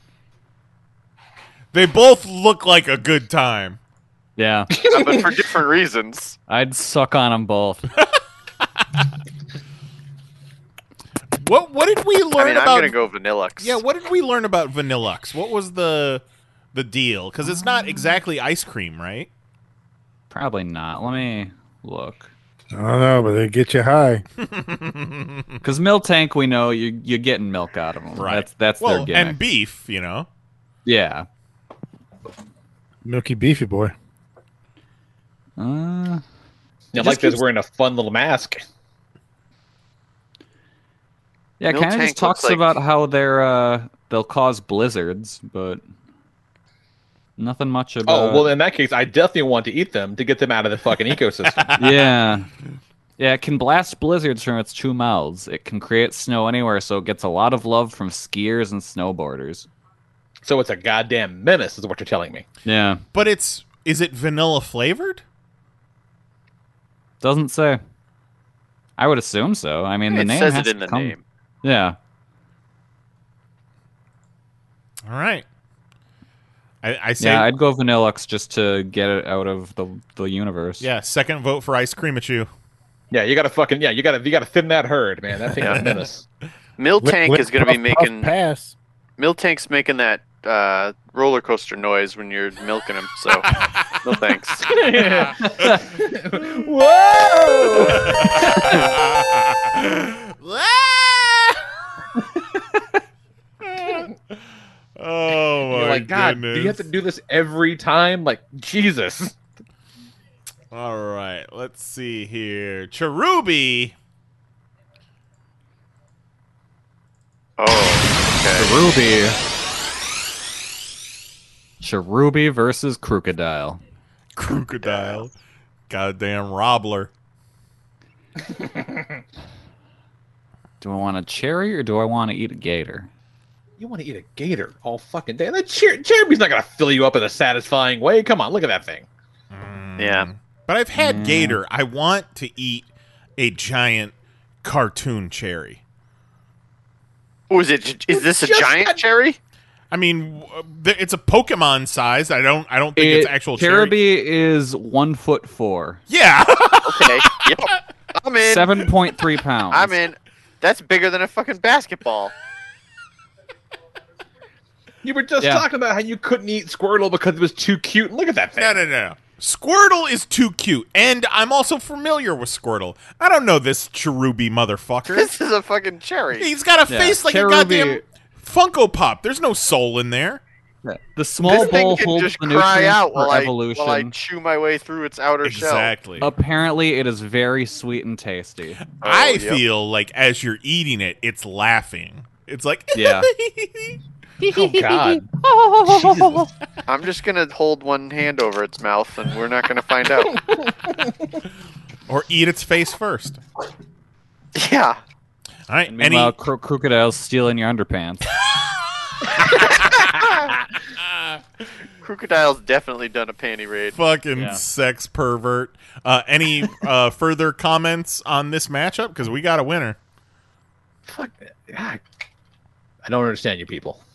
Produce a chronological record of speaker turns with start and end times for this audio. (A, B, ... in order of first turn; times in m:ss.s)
0:01.7-0:03.8 A
0:04.4-0:04.7 B
0:04.7-0:05.2 C
0:04.8-0:06.4 D
0:06.5-0:07.9 B
0:11.4-0:13.0 A
0:12.4-0:13.8 D
0:13.6-0:19.3 A
0:20.3-0:22.3 B
0:22.7-0:24.2 E
0:24.4-0:25.4 A
0:25.6-0:29.4 B
0:28.2-0:30.3 A
0:30.8-0:31.3 B
0:33.0-0:33.9 E
0:35.6-0:36.2 B
0:36.9-0:38.6 C
0:37.0-0:37.4 B
0:41.6-0:45.8 B
0:41.7-0:42.8 D
0:47.4-0:48.5 B
0:48.1-0:51.7 C
0:51.6-0:52.0 A
0:51.8-0:52.5 B
0:53.2-0:59.7 B
1:00.4-1:02.5 C
1:02.6-1:03.0 B
1:03.1-1:05.2 A
1:07.2-1:07.8 B
1:09.0-1:12.0 B
1:10.1-1:11.2 D
1:15.0-1:15.4 A
1:16.8-1:17.5 A
1:17.2-1:20.9 B
1:20.8-1:22.5 A
1:23.1-1:26.3 C
1:26.8-1:28.3 D
1:27.0-1:28.7 E
1:29.2-1:33.5 D
1:33.4-1:34.0 A
1:34.0-1:34.7 D
1:34.7-1:38.9 C
1:37.8-1:41.6 A
1:43.6-1:44.1 A
1:45.0-1:46.8 A
1:45.6-1:49.4 C
1:50.7-1:54.0 A
1:57.6-1:58.7 D
1:58.6-1:59.4 B
2:01.8-2:03.8 B
2:04.4-2:05.3 A
2:05.9-2:07.1 A
2:08.5-2:09.2 C
2:10.8-2:13.1 B
2:13.8-2:19.1 C
2:19.5-2:24.1 A
2:20.0-2:20.3 D
2:21.0-2:21.6 B
2:24.6-2:25.8 A
2:27.5-2:29.4 D
2:28.1-2:29.0 C
2:29.9-2:34.0 A
2:33.0-2:36.0 B
2:36.1-2:37.7 A
2:36.8-2:38.8 D
2:38.4-2:40.0 B
2:39.7-2:42.3 D
2:45.0-2:48.8 C
2:45.4-2:45.7 B
2:48.6-2:55.3 A
2:55.1-2:56.5 D
2:56.4-3:00.4 A
2:56.9-2:58.0 B
3:00.8-3:04.1 B
3:01.5-3:05.9 D
3:05.4-3:06.3 A
3:06.2-3:08.8 B
3:09.0-3:14.0 A
3:09.0-3:09.6 D
3:12.9-3:13.3 B
3:14.4-3:15.3 C
3:15.8-3:16.5 C
3:16.9-3:20.4 D
3:20.4-3:21.1 C
3:22.1-3:23.4 A
3:24.6-3:25.0 D
3:25.7-3:26.3 A
3:25.9-3:28.2 B
3:29.5-3:30.0 A
3:31.0-3:31.4 A
3:32.0-3:34.0 D
3:33.9-3:40.0 A
3:34.4-3:34.6 B
3:41.1-3:42.0 C
3:43.0-3:44.0 C